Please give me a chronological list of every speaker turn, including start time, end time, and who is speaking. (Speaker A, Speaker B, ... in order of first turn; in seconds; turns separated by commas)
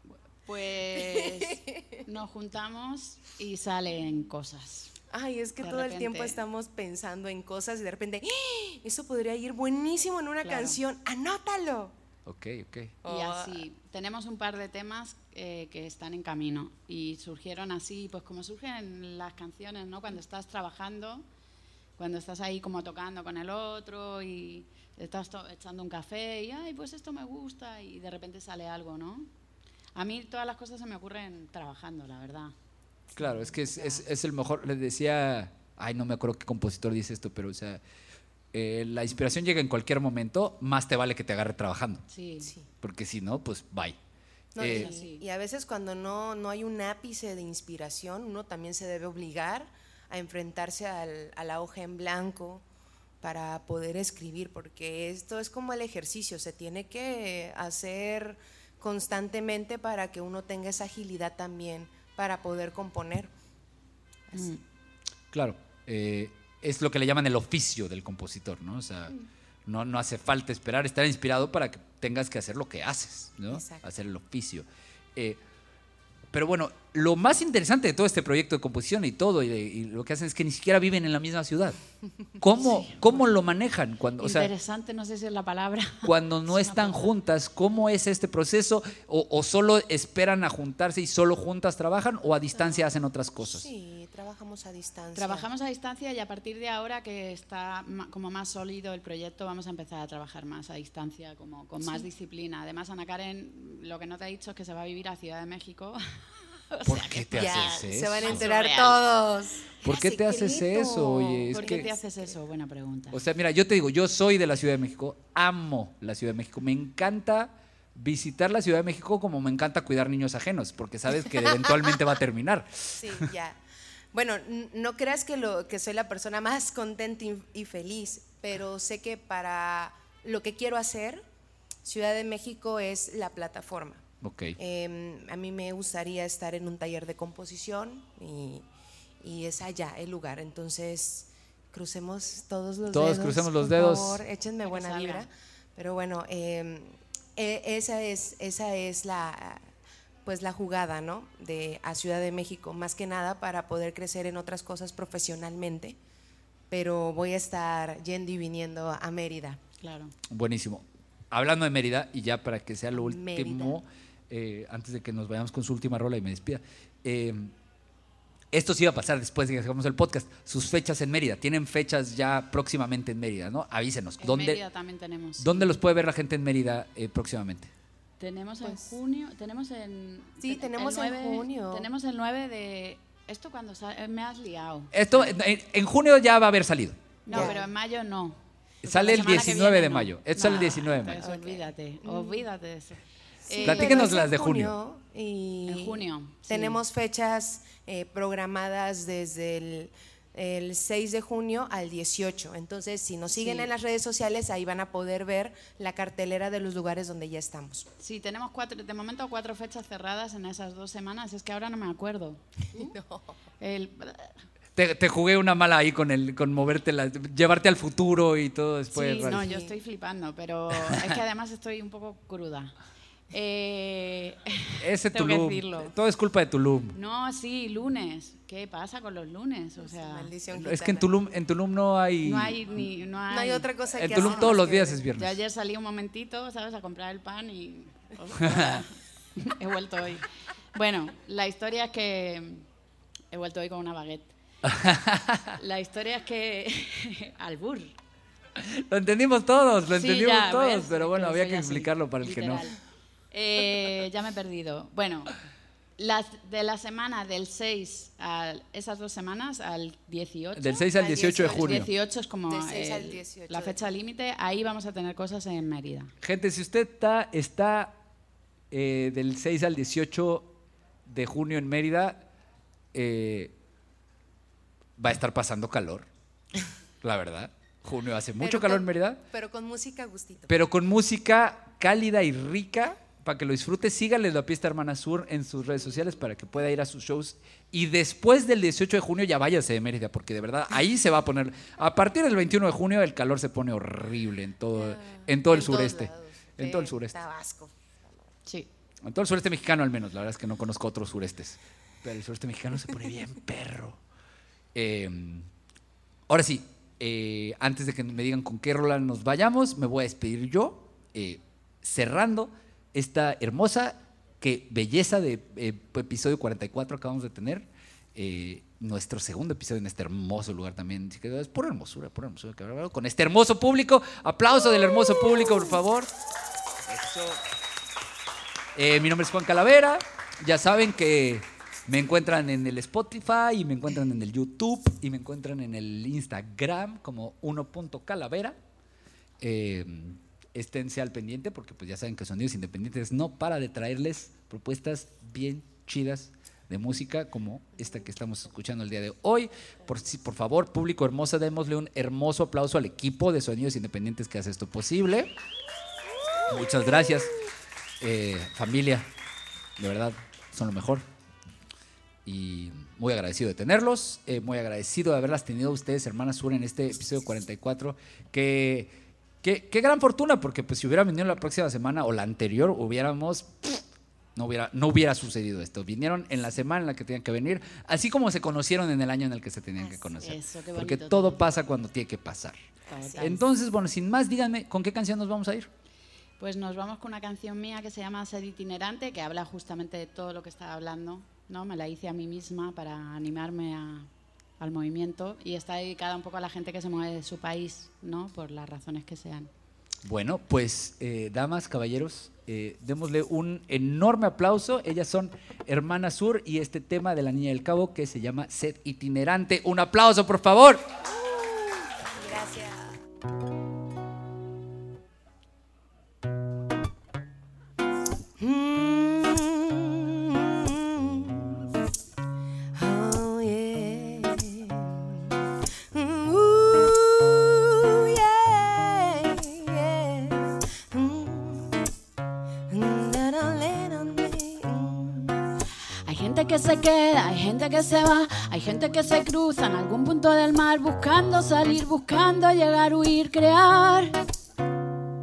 Speaker A: 0.5-4.9, Speaker B: 0.9-2.0, Speaker B: 5.1-11.9, Speaker A: 5.6-6.4, Speaker A: 10.4-10.8, Speaker C: 12.2-12.9, Speaker B: 13.0-13.6, Speaker A: 13.0-21.2, Speaker A: 22.0-29.3, Speaker A: 29.9-32.5, Speaker C: 33.1-37.8, Speaker A: 33.2-34.0, Speaker C: 38.5-42.0, Speaker A: 42.1-42.5, Speaker B: 42.4-42.7, Speaker C: 42.8-44.0, Speaker B: 44.5-52.6, Speaker C: 44.6-44.9, Speaker A: 44.7-45.2, Speaker B: 53.2-63.3, Speaker B: 64.3-64.5, Speaker A: 64.3-64.6, Speaker C: 65.3-69.1, Speaker C: 69.7-75.4, Speaker B: 73.5-73.8, Speaker C: 76.3-81.8, Speaker C: 82.4-84.5, Speaker A: 82.6-83.0, Speaker A: 84.2-87.1, Speaker C: 86.0-93.7, Speaker B: 92.5-92.8, Speaker B: 93.4-95.5, Speaker A: 95.1-109.0, Speaker C: 106.8-108.4, Speaker B: 107.3-112.3, Speaker C: 109.8-111.9, Speaker A: 111.5-113.2, Speaker C: 113.1-123.3, Speaker B: 123.0-123.6, Speaker B: 124.1-131.2, Speaker B: 131.8-134.0, Speaker C: 134.2-134.6, Speaker B: 134.6-138.6, Speaker B: 139.2-149.6, Speaker C: 142.9-144.2, Speaker A: 144.7-145.3, Speaker B: 150.2-156.0, Speaker B: 156.7-159.6, Speaker A: 159.8-160.1, Speaker C: 160.3-167.5, Speaker B: 162.9-163.8, Speaker C: 168.5-174.6, Speaker A: 174.2-175.7, Speaker C: 175.4-177.7, Speaker A: 178.2-185.3, Speaker B: 178.6-178.9, Speaker B: 180.4-181.9, Speaker C: 184.9-187.5, Speaker A: 187.2-194.1, Speaker B: 187.3-187.7, Speaker C: 188.8-191.2, Speaker B: 188.8-189.5, Speaker B: 190.5-192.5, Speaker B: 193.5-207.9, Speaker C: 193.6-194.8, Speaker A: 195.7-196.8, Speaker A: 203.3-203.7, Speaker A: 208.0-212.4, Speaker B: 212.7-213.3, Speaker A: 213.6-214.3, Speaker C: 214.8-219.4, Speaker A: 218.9-222.7, Speaker B: 219.2-219.8, Speaker A: 223.3-225.9, Speaker C: 224.8-226.9, Speaker A: 226.9-230.3, Speaker B: 229.8-231.1, Speaker C: 230.5-232.6, Speaker A: 232.2-242.7, Speaker B: 233.3-235.0, Speaker C: 233.9-235.4, Speaker C: 238.4-238.8, Speaker A: 243.3-244.3, Speaker C: 244.6-245.6, Speaker A: 245.5-247.9, Speaker C: 248.6-252.7, Speaker A: 249.9-252.8, Speaker A: 253.3-255.3, Speaker A: 256.0-266.1, Speaker C: 260.6-261.9, Speaker B: 261.0-261.9, Speaker B: 262.5-263.8, Speaker C: 266.2-267.9, Speaker C: 268.7-270.5, Speaker C: 271.1-272.2, Speaker C: 272.9-273.5, Speaker C: 275.0-276.1, Speaker C: 277.0-279.2, Speaker B: 278.4-280.5, Speaker C: 280.5-297.1, Speaker B: 294.7-297.7, Speaker C: 299.0-304.0, Speaker C: 304.7-305.5, Speaker C: 306.3-326.1, Speaker C: 326.9-327.4, Speaker C: 328.7-338.6, Speaker C: 339.4-355.3, Speaker C: 356.5-357.3, Speaker C: 358.0-359.1, Speaker C: 359.8-361.0, Speaker C: 362.2-373.8, Speaker C: 374.3-382.6, Speaker B: 379.8-380.3, Speaker A: 380.2-381.5, Speaker B: 382.9-383.3, Speaker A: 382.9-383.4, Speaker C: 383.2-385.7, Speaker A: 386.4-394.1, Speaker A: 394.6-399.5, Speaker C: 400.0-410.8, Speaker B: 411.1-413.0, Speaker B: 418.4-421.7, Speaker B: 422.7-425.3, Speaker B: 425.9-431.9, Speaker B: 432.7-435.4, Speaker A: 436.1-444.2